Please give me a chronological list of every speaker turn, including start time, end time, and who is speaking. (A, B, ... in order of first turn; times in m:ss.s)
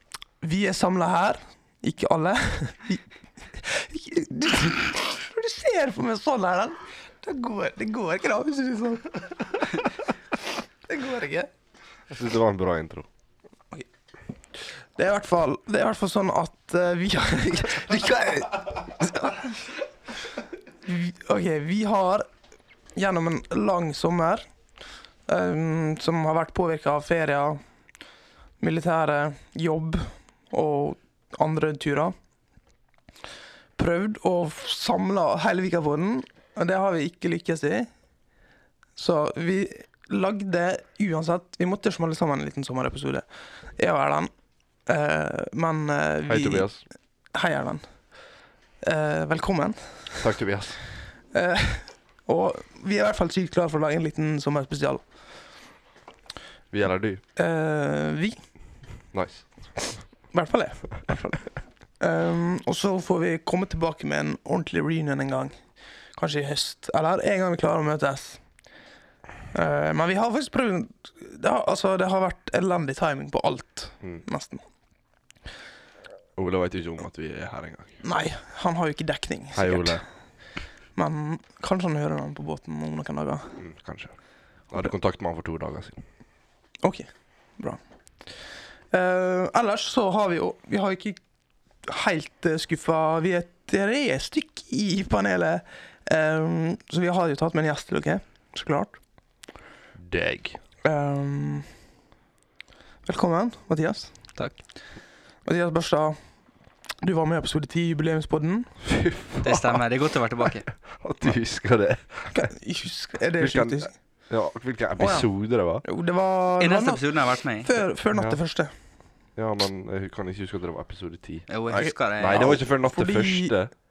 0:00.4-0:09.9 A
0:10.9-0:11.5 A
0:12.1-0:13.1 B
0:15.0-0:19.6 A
0:20.8-0:22.3 A
0:22.9-0:24.4 A
0:25.3-0:27.6 A
0:28.6-0:32.1 A
0:33.8-0:37.9 A
0:39.0-0:43.2 A
0:43.8-0:44.3 A
0:44.9-0:46.8 A
0:46.2-0:46.8 B
0:47.3-0:47.8 A
0:48.8-0:50.3 A
0:50.2-0:50.8 B
0:51.3-0:55.0 A
0:56.7-0:57.2 B
0:57.4-0:58.4 A
0:59.1-0:59.5 B
1:00.3-1:05.6 A
1:06.1-1:08.4 A
1:09.5-1:14.6 A
1:16.4-1:18.0 B
1:18.0-1:20.0 A
1:19.5-1:20.0 B
1:20.9-1:23.6 A
1:23.6-1:24.1 B
1:24.7-1:26.0 B
1:26.8-1:28.4 A
1:28.9-1:31.2 A
1:31.8-1:39.0 A
1:40.0-1:40.6 B
1:40.8-1:41.6 A
1:43.0-1:44.1 A
1:45.4-1:46.2 A
1:47.0-1:48.7 A
1:48.8-1:49.8 B
1:49.4-1:50.7 C
1:50.9-1:52.5 B
1:52.3-1:53.9 A
1:53.4-1:55.8 B
1:55.0-1:55.3 A
1:55.8-1:58.7 A
1:56.6-1:57.7 C
1:58.1-1:58.4 B
1:59.4-2:03.7 B
2:01.5-2:02.5 C
2:01.7-2:03.5 A